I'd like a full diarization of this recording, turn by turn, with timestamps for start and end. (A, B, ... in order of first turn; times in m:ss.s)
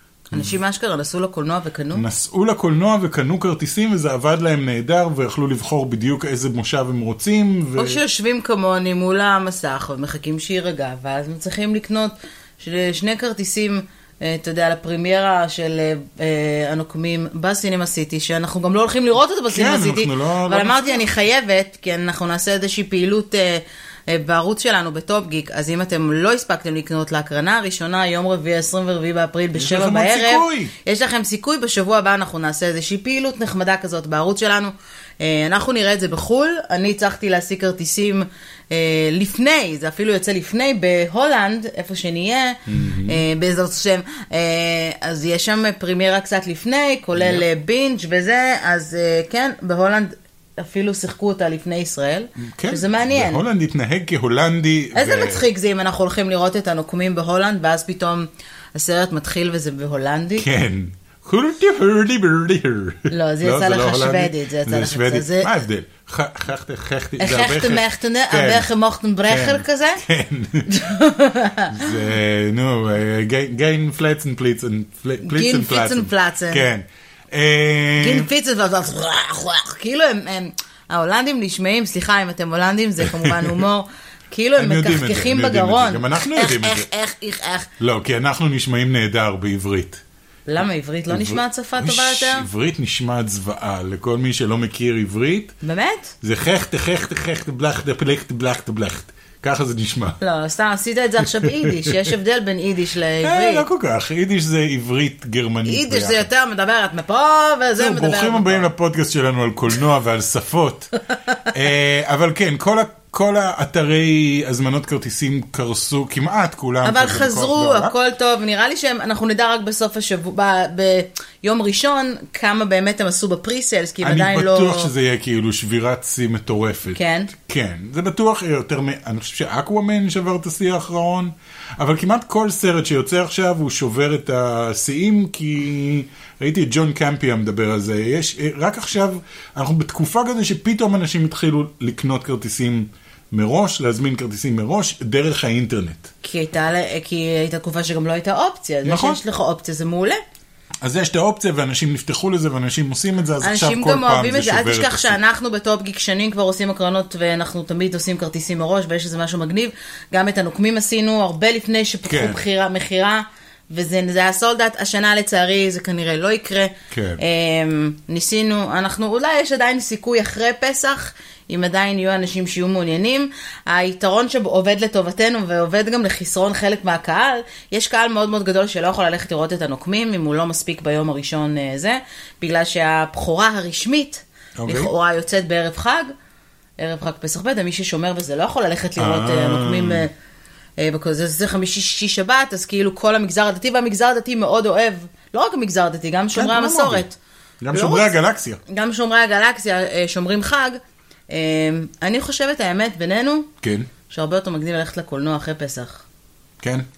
0:00.3-0:02.0 A
0:01.9-0:08.0 B
0:07.8-0:53.4 A
0:19.5-0:21.0 B
0:29.5-0:30.7 B
0:42.7-0:43.2 B
0:47.2-0:47.4 B
0:52.4-0:55.5 B
0:54.9-1:00.4 A
1:00.4-1:08.7 B
1:03.1-1:05.5 A
1:07.2-1:10.0 A
1:09.3-1:10.7 B
1:10.6-1:12.0 A
1:11.7-1:18.3 B
1:15.2-1:16.6 A
1:18.0-1:27.7 A
1:23.0-1:23.6 B
1:24.6-1:26.9 B
1:27.8-1:30.0 B
1:30.5-1:32.5 A
1:31.1-1:35.5 B
1:35.6-1:36.1 A
1:36.2-1:40.2 B
1:40.2-1:43.7 A
1:41.2-1:42.0 B
1:43.2-1:46.3 B
1:45.6-1:48.7 A
1:47.8-1:50.9 B
1:51.5-1:57.9 B
1:56.8-2:04.9 A
2:04.0-2:26.1 B
2:06.9-2:07.3 A
2:26.2-2:30.2 A
2:28.8-2:29.2 B
2:30.8-2:35.2 B
2:33.4-3:06.1 A
2:42.0-2:42.4 B
2:46.9-2:47.2 B
3:04.6-3:04.9 B
3:06.8-3:10.1 A
3:09.0-3:10.0 B
3:10.8-3:17.2 A
3:16.3-3:17.0 B
3:17.6-3:18.6 B
3:17.7-3:18.1 A
3:18.7-3:20.8 A
3:21.3-3:23.5 A
3:23.6-3:23.9 B
3:24.1-3:26.0 A
3:26.6-3:26.8 B